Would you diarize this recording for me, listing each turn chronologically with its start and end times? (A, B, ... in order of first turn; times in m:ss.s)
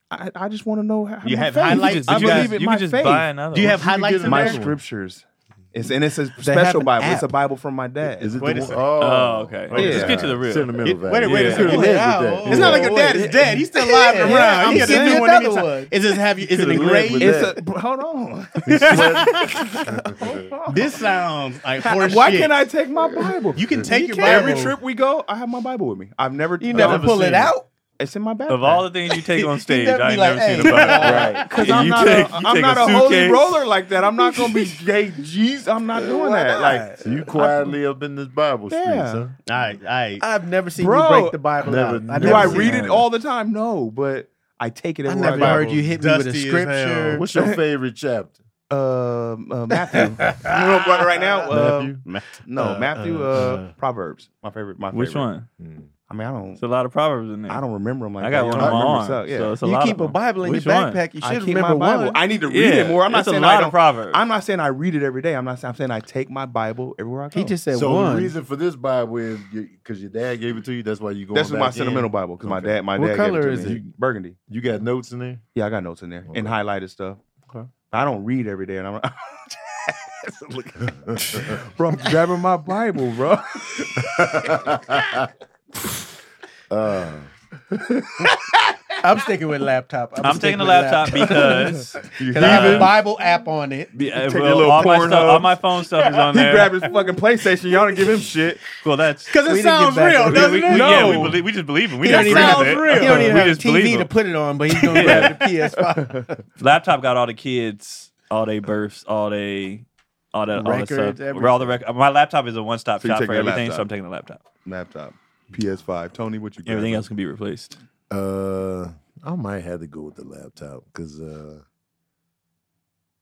0:00.1-0:08.7 A
0:01.2-0:02.6 B
0:01.6-0:03.8 C
0:03.5-0:04.6 B
0:03.5-0:04.8 D
0:06.4-0:07.3 E
0:08.2-0:13.0 D
0:08.4-0:08.8 B
0:09.0-0:11.8 C
0:09.7-0:10.1 B
0:09.7-0:10.3 A
0:10.8-0:17.4 B
0:11.6-0:15.9 E
0:12.9-0:13.6 A
0:14.2-0:15.2 A
0:16.5-0:17.6 D
0:16.6-0:20.1 A
0:18.6-0:19.8 B
0:18.7-0:20.5 D
0:20.2-0:21.0 E
0:20.7-0:22.6 B
0:20.7-0:21.0 A
0:21.9-0:28.9 A
0:23.6-0:24.8 B
0:23.8-0:24.6 E
0:26.6-0:27.6 E
0:26.7-0:27.1 D
0:28.5-0:33.6 C
0:29.4-0:31.5 E
0:30.5-0:31.5 B
0:31.0-0:31.5 D
0:31.0-0:37.8 A
0:34.2-0:34.6 E
0:36.0-0:37.2 E
0:37.0-0:39.3 D
0:38.7-0:39.2 A
0:39.4-0:40.2 B
0:40.2-0:42.9 E
0:40.8-0:41.4 A
0:41.6-0:43.0 D
0:42.2-0:45.8 A
0:45.0-0:47.2 E
0:45.3-0:47.2 B
0:47.1-0:48.4 D
0:48.7-0:55.3 A
0:51.5-0:52.0 D
0:52.0-0:52.4 B
0:52.6-0:53.7 D
0:54.9-0:55.5 C
0:55.6-0:55.9 D
0:56.1-0:56.6 A
0:56.6-0:57.6 C
0:57.5-0:59.6 A
0:58.2-1:01.0 C
0:58.6-0:59.0 D
0:59.6-1:02.2 E
1:01.2-1:07.6 A
1:02.5-1:04.2 C
1:07.3-1:08.3 E
1:07.7-1:12.8 D
1:11.3-1:14.4 A
1:13.0-1:13.8 E
1:14.5-1:15.4 D
1:15.5-1:17.2 A
1:16.3-1:16.6 D
1:17.9-1:24.5 A
1:20.8-1:21.6 D
1:24.0-1:25.3 D
1:26.7-1:27.3 D
1:29.0-1:33.9 E
1:30.2-1:33.0 C
1:32.1-1:33.0 A
1:34.0-1:36.7 C
1:34.0-1:38.6 A
1:38.8-1:39.4 C
1:39.3-1:41.3 B
1:39.4-1:41.2 E
1:40.2-1:44.1 C
1:40.4-1:41.4 A
1:42.0-1:43.6 B
1:42.0-1:46.4 E
1:42.1-1:43.0 A
1:44.9-1:45.4 B
1:44.9-1:45.3 C
1:45.7-1:46.2 A
1:46.6-1:54.4 C
1:50.5-1:51.8 E
1:53.0-1:53.9 A
1:54.6-1:57.0 A
1:56.6-1:57.8 C
1:58.1-2:01.6 D